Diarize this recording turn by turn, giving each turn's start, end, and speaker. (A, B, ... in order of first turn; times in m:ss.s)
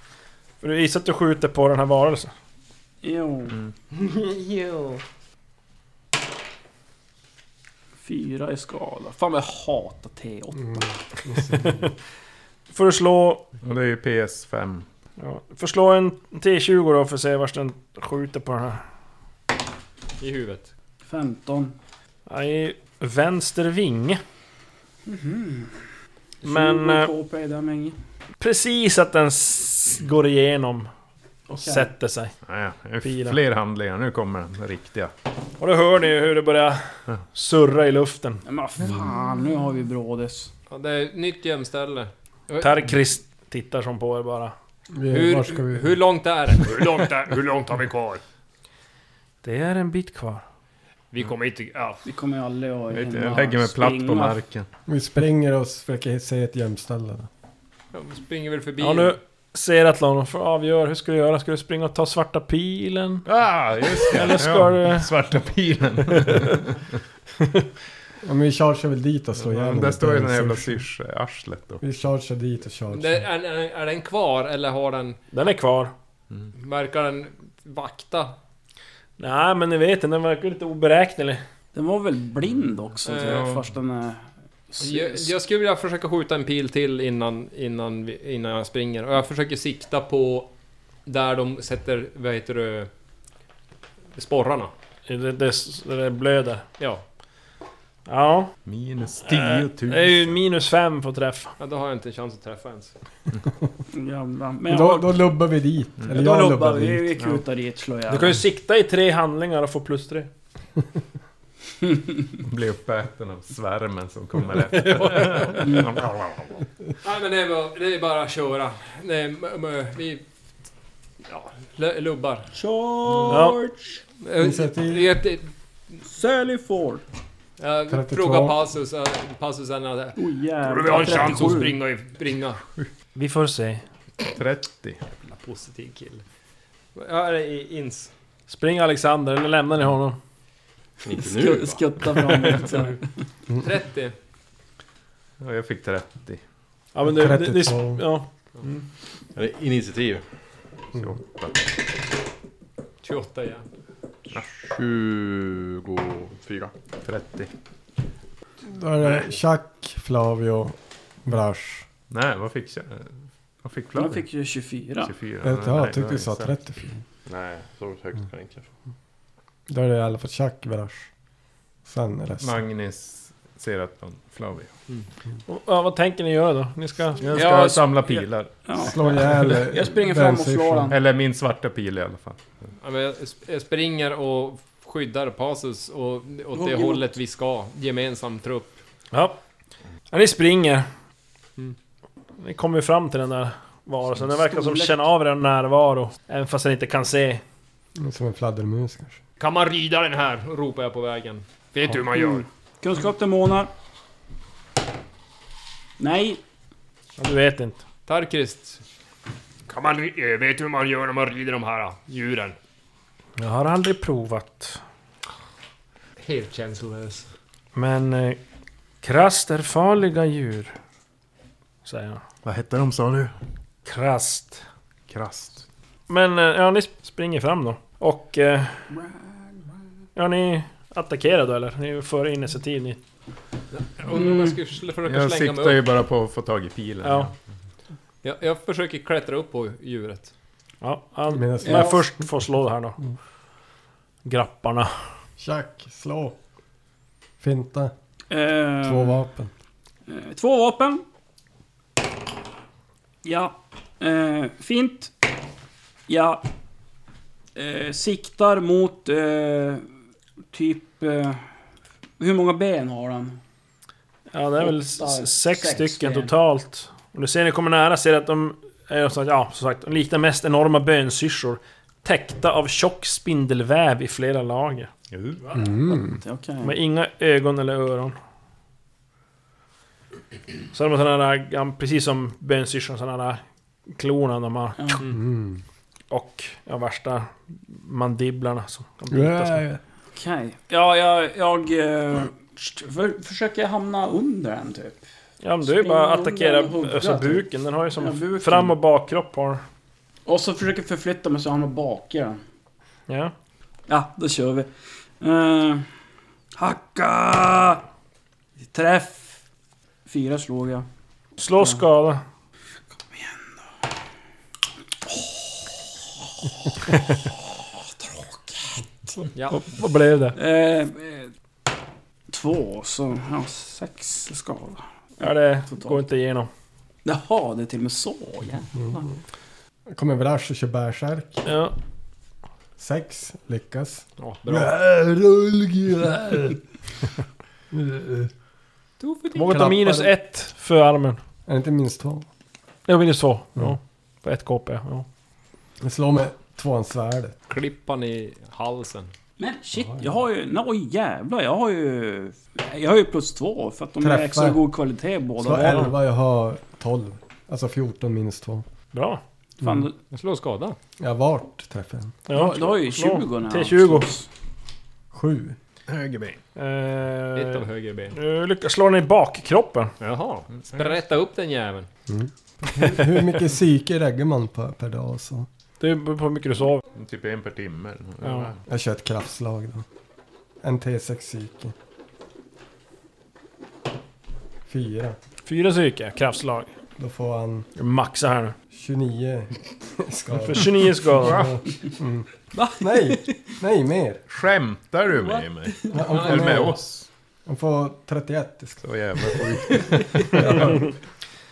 0:00.6-0:02.3 A
0:03.0-0:03.6 B
0:03.9-0:05.0 C
0:08.0-0:10.8 B
0:10.6-0:11.9 D
0:11.6-0:11.9 A
0:12.7-0:13.4 A
0:13.6-0:14.8 E
0:15.2-0:18.8 A
0:20.2-0:20.7 C
0:21.0-0:21.7 B
0:22.3-0:24.2 A
0:25.0-0:25.8 B
0:26.4-0:28.0 B
0:26.4-0:27.1 A
0:28.4-0:30.9 A
0:31.5-0:31.9 B
0:31.5-0:32.3 A
0:32.4-0:35.1 E
0:33.0-0:33.4 A
0:35.6-0:38.4 A
0:38.4-0:40.5 B
0:40.7-0:42.9 C
0:42.6-0:44.5 A
0:44.9-0:46.0 D
0:45.1-0:48.2 C
0:49.4-0:50.4 A
0:51.1-0:52.0 C
0:52.0-0:54.4 B
0:52.9-0:54.7 E
0:54.9-0:57.3 D
0:57.9-0:59.2 C
0:58.8-1:03.2 A
1:03.2-1:06.8 E
1:04.0-1:05.1 A
1:06.1-1:06.5 A
1:08.2-1:10.8 D
1:09.4-1:11.8 E
1:11.8-1:13.2 D
1:12.9-1:15.2 C
1:15.3-1:15.9 A
1:16.6-1:18.3 C
1:19.2-1:21.4 A
1:21.7-1:25.3 B
1:23.0-1:23.5 C
1:23.2-1:23.6 E
1:24.8-1:30.5 C
1:31.0-1:32.9 C
1:34.1-1:34.7 C
1:35.1-1:36.6 A
1:38.1-1:38.5 A
1:38.6-1:40.4 E
1:39.2-1:41.5 A
1:41.6-1:42.9 C
1:43.9-1:45.2 B
1:44.6-1:47.2 D
1:46.1-1:48.4 B
1:48.1-1:50.3 A
1:52.4-1:56.5 E
1:54.9-1:55.5 A
1:57.0-2:00.2 C
2:01.2-2:02.5 C
2:02.5-2:04.0 B
2:03.3-2:03.6 A
2:04.2-2:05.5 C
2:04.4-2:05.1 D
2:06.0-2:07.0 B
2:07.6-2:12.6 C
2:07.9-2:08.6 D
2:10.2-2:11.8 B
2:11.2-2:11.6 A
2:13.2-2:13.8 A
2:14.2-2:15.0 E
2:15.2-2:16.2 C
2:16.9-2:18.1 C
2:18.5-2:20.2 A
2:21.0-2:21.9 F
2:21.2-2:23.0 B
2:22.4-2:22.9 A
2:23.6-2:24.1 C
2:25.4-2:26.4 E
2:26.9-2:28.8 A
2:27.0-2:28.0 D
2:29.3-2:30.2 F
2:30.9-2:31.7 E
2:33.0-2:33.6 C
2:34.5-2:36.7 F
2:37.0-2:37.5 E
2:38.6-2:41.9 D
2:42.1-2:43.1 E
2:43.6-2:44.2 E
2:43.9-2:45.1 B
2:45.0-2:46.5 E
2:45.4-2:47.0 D
2:47.3-2:48.7 F
2:49.7-2:51.1 D
2:51.8-2:52.6 D
2:52.4-2:54.7 E
2:55.5-2:57.2 A
2:57.2-2:58.9 E
2:57.3-3:01.0 B
2:58.8-3:01.0 D
3:00.9-3:02.7 E
3:02.8-3:08.8 C
3:06.5-3:07.0 B
3:09.1-3:09.4 A
3:10.1-3:10.9 A
3:12.4-3:17.4 A
3:14.3-3:15.0 B
3:18.0-3:19.2 D
3:19.4-3:22.4 C
3:22.1-3:23.7 B
3:26.0-3:26.4 B
3:27.2-3:27.8 A
3:28.1-3:28.8 C
3:29.7-3:32.6 C
3:33.4-3:34.8 A
3:36.2-3:37.3 C
3:37.7-3:38.4 A
3:39.0-3:40.8 A
3:41.8-3:42.2 A
3:42.4-3:43.3 E
3:43.8-3:44.6 A
3:45.1-3:45.6 E
3:46.1-3:48.9 A
3:50.2-3:53.0 A
3:53.7-3:55.8 C
3:54.1-3:54.6 B
3:55.0-3:57.3 E
3:57.0-3:57.3 A
3:58.2-4:00.3 C
4:00.8-4:03.0 A
4:01.3-4:02.3 D
4:01.6-4:02.0 B
4:04.2-4:04.9 A
4:05.4-4:06.4 D
4:07.4-4:07.9 D
4:08.3-4:09.2 B
4:08.8-4:09.5 D
4:10.1-4:11.0 B
4:13.2-4:15.1 B
4:16.1-4:16.4 B
4:17.5-4:19.8 B
4:20.5-4:21.4 B
4:22.2-4:23.4 B
4:24.3-4:34.9 A
4:24.6-4:26.3 B
4:35.1-4:35.4 E
4:35.5-4:36.2 D
4:35.9-4:36.8 B
4:36.6-4:38.2 A
4:40.7-4:43.4 A
4:43.9-4:45.0 A
4:44.8-4:45.1 B
4:45.1-4:45.6 D
4:46.1-4:49.6 A
4:49.1-4:49.8 D
4:50.1-4:55.0 B
4:55.4-4:59.6 A
4:55.6-4:58.7 B
5:00.2-5:02.4 B
5:03.1-5:03.3 A
5:03.9-5:04.7 B
5:05.2-5:05.9 B
5:06.6-5:07.8 B
5:08.6-5:09.4 B
5:10.0-5:10.8 B
5:11.4-5:12.2 A
5:13.1-5:13.6 B
5:15.0-5:15.7 B
5:16.2-5:19.2 B
5:19.3-5:19.6 C
5:19.5-5:20.4 A
5:20.4-5:21.3 B
5:22.3-5:24.8 B
5:25.2-5:26.5 A
5:25.7-5:26.0 B
5:27.0-5:28.7 B
5:28.8-5:29.1 D
5:29.9-5:31.5 D
5:31.4-5:31.7 A
5:32.8-5:36.6 D
5:34.2-5:34.7 C
5:37.7-5:38.3 D
5:39.0-5:39.6 C
5:39.3-5:41.2 A
5:39.5-5:40.1 D
5:41.4-5:42.3 D
5:42.9-5:45.1 A
5:45.8-5:47.4 D
5:47.5-5:49.1 C
5:49.4-5:55.9 B
5:49.8-5:50.0 D
5:54.0-5:54.7 D
5:55.4-5:58.6 D
5:58.9-5:59.2 A
5:59.6-5:59.9 B
5:59.6-5:59.9 D
6:00.1-6:00.8 C
6:01.0-6:02.2 D
6:02.3-6:04.1 A
6:02.3-6:04.3 B
6:05.1-6:05.6 D
6:05.9-6:06.4 E
6:06.6-6:09.9 A
6:07.3-6:08.1 C
6:10.0-6:11.9 C
6:12.1-6:15.5 D
6:15.8-6:16.8 A
6:16.9-6:18.6 E
6:18.2-6:18.5 A
6:18.7-6:19.8 D
6:20.6-6:21.7 D
6:24.7-6:25.2 D
6:25.4-6:26.7 A
6:27.0-6:27.7 D
6:27.8-6:28.6 A
6:28.7-6:34.2 D
6:30.4-6:31.4 A
6:31.2-6:31.6 E
6:32.5-6:33.5 B
6:34.3-6:37.1 E
6:35.1-6:35.9 B
6:35.9-6:36.8 D
6:36.1-6:36.5 C
6:37.4-6:38.8 D
6:38.8-6:40.6 E
6:40.2-6:40.9 D
6:40.5-6:40.8 A